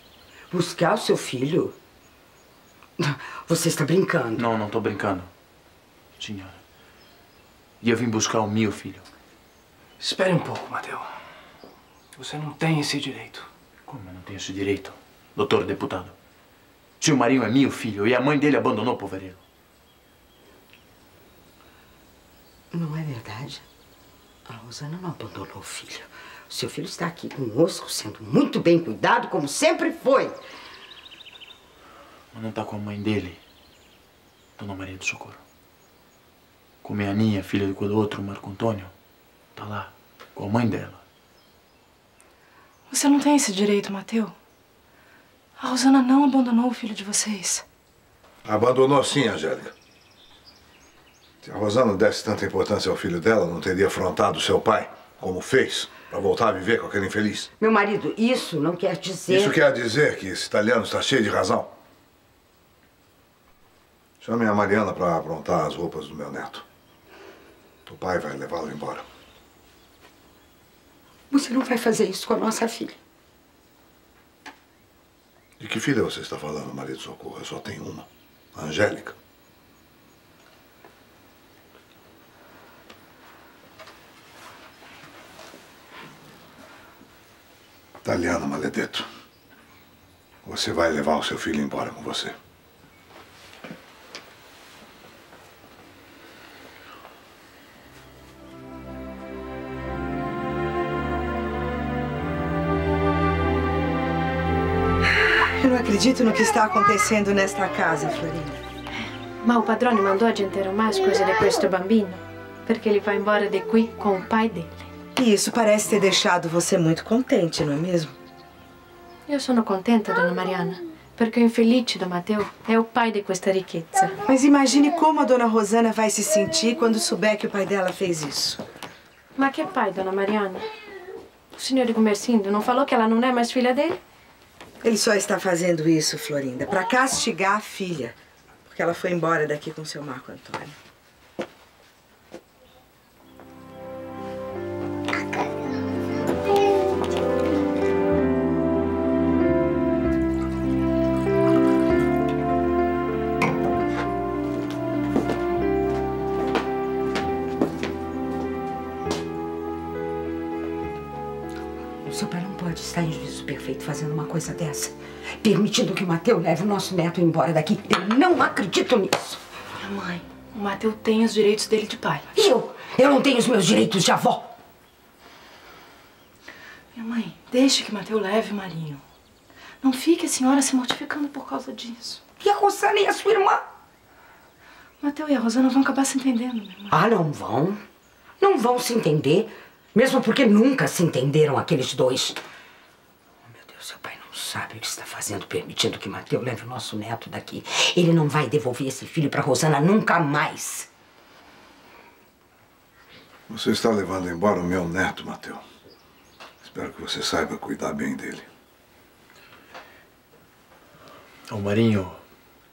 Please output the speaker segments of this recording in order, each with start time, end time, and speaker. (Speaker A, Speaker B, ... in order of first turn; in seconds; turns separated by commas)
Speaker A: 0.5-1.7, Speaker A: 3.0-4.5, Speaker B: 4.4-5.3, Speaker B: 6.2-6.6, Speaker B: 7.8-9.0, Speaker C: 10.0-11.1, Speaker C: 12.2-13.5, Speaker B: 13.9-16.1, Speaker B: 17.0-19.4, Speaker A: 22.7-23.6, Speaker A: 24.5-30.4, Speaker B: 32.3-33.4, Speaker B: 34.6-35.4, Speaker B: 36.8-38.9, Speaker B: 39.5-41.0, Speaker D: 42.9-44.3, Speaker D: 45.6-47.6, Speaker E: 48.4-49.7, Speaker E: 51.4-57.5, Speaker A: 57.6-59.6, Speaker E: 59.3-61.7, Speaker E: 64.2-66.6, Speaker E: 67.8-69.0, Speaker A: 71.3-73.0, Speaker E: 75.6-79.2, Speaker E: 88.0-89.0, Speaker E: 90.4-92.3, Speaker F: 105.6-108.6, Speaker G: 109.4-114.9, Speaker F: 115.2-118.1, Speaker G: 119.3-124.1, Speaker F: 124.2-128.6, Speaker G: 129.3-130.7, Speaker G: 131.5-134.0, Speaker F: 134.8-138.1, Speaker F: 138.7-140.8, Speaker A: 162.1-169.4, Speaker D: 169.8-172.2, Speaker A: 172.3-174.5, Speaker D: 176.9-179.0, Speaker D: 179.8-182.2, Speaker A: 182.4-183.6, Speaker D: 185.0-186.9, Speaker A: 186.9-187.8, Speaker A: 188.4-192.4, Speaker A: 193.5-200.9, Speaker E: 203.5-205.6, Speaker E: 206.6-208.5, Speaker B: 211.5-212.2